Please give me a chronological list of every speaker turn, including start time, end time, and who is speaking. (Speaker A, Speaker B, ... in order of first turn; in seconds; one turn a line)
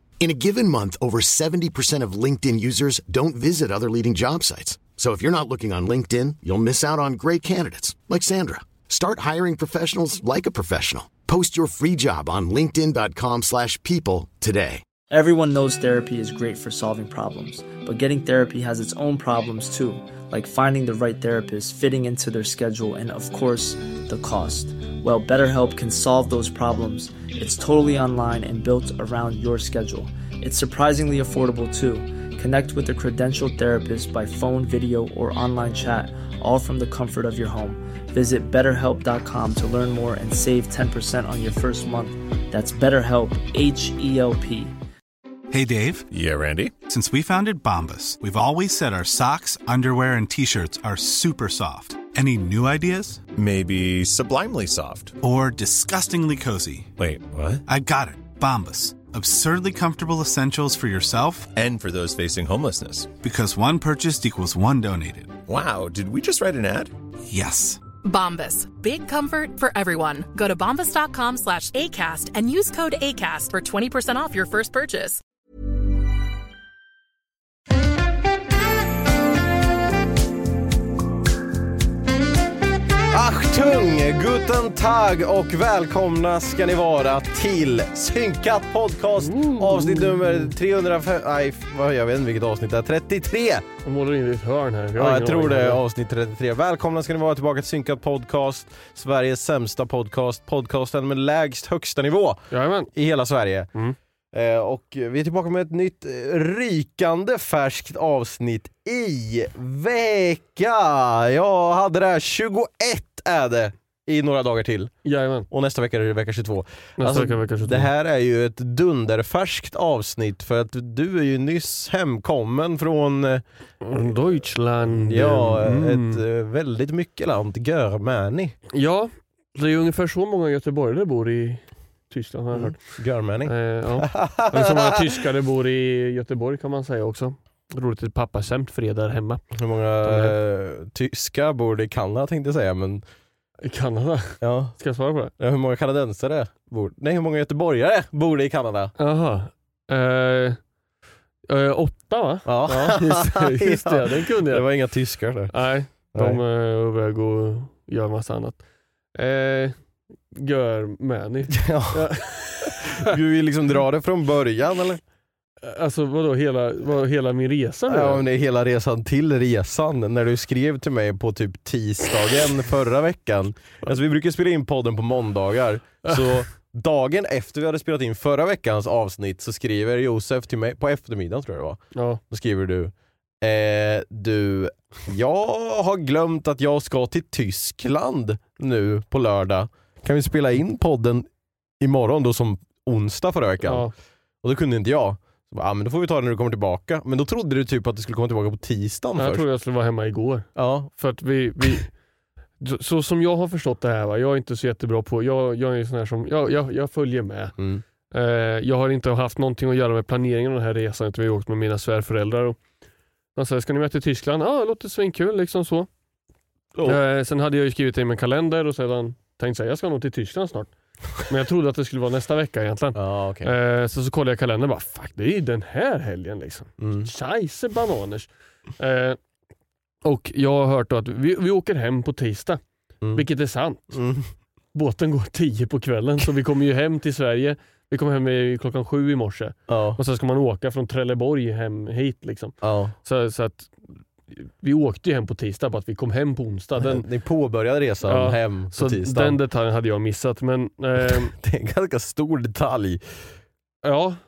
Speaker A: 0.2-14.8
Speaker B: 15.1-44.7
Speaker C: 45.5-46.0
Speaker D: 46.1-46.7
Speaker C: 46.9-53.2
Speaker D: 53.3-55.1
Speaker C: 55.2-56.9
Speaker D: 57.0-57.6
Speaker C: 57.6-61.5
Speaker D: 61.5-63.1
Speaker C: 63.2-65.4
Speaker D: 65.5-66.9
Speaker C: 67.3-67.8
Speaker E: 68.0-75.2
Speaker F: 83.1-93.6
Speaker G: 89.2-90.5
Speaker G: 93.8-95.8
Speaker F: 95.0-102.4
Speaker G: 102.5-102.9
Speaker F: 102.9-103.7
Speaker F: 104.3-114.9
Speaker G: 115.0-115.5
Speaker F: 115.5-123.4
Speaker G: 117.0-117.9
Speaker G: 123.8-126.2
Speaker F: 124.9-128.6
Speaker G: 128.7-132.8
Speaker F: 132.5-135.1
Speaker G: 133.4-139.4
Speaker F: 139.5-143.0
Speaker G: 140.0-140.3
Speaker G: 143.6-145.3
Speaker F: 144.4-144.8
Speaker F: 145.4-148.9
Speaker G: 149.0-150.6
Speaker G: 151.5-154.7
Speaker F: 152.4-155.5
Speaker G: 155.5-158.6
Speaker F: 156.1-156.4
Speaker G: 159.1-159.8
Speaker G: 160.3-163.1
Speaker F: 161.5-165.0
Speaker G: 165.6-168.2
Speaker F: 167.9-191.2
Speaker G: 176.0-176.4
Speaker G: 181.9-182.2
Speaker F: 191.8-193.9
Speaker G: 193.6-193.9
Speaker F: 194.4-199.4
Speaker G: 199.2-201.9
Speaker F: 200.6-200.9
Speaker G: 202.6-207.5
Speaker F: 207.6-207.8
Speaker G: 208.1-212.6
Speaker G: 213.3-215.9
Speaker F: 216.7-217.0
Speaker G: 216.8-229.2
Speaker F: 222.9-223.5
Speaker F: 226.8-227.1
Speaker G: 230.0-232.6
Speaker G: 233.1-234.0
Speaker F: 233.9-234.3
Speaker G: 234.7-243.8
Speaker F: 239.7-240.0
Speaker F: 242.6-242.9
Speaker G: 244.3-247.1
Speaker F: 246.8-249.4
Speaker G: 248.0-251.3
Speaker F: 251.0-253.3
Speaker G: 253.8-254.2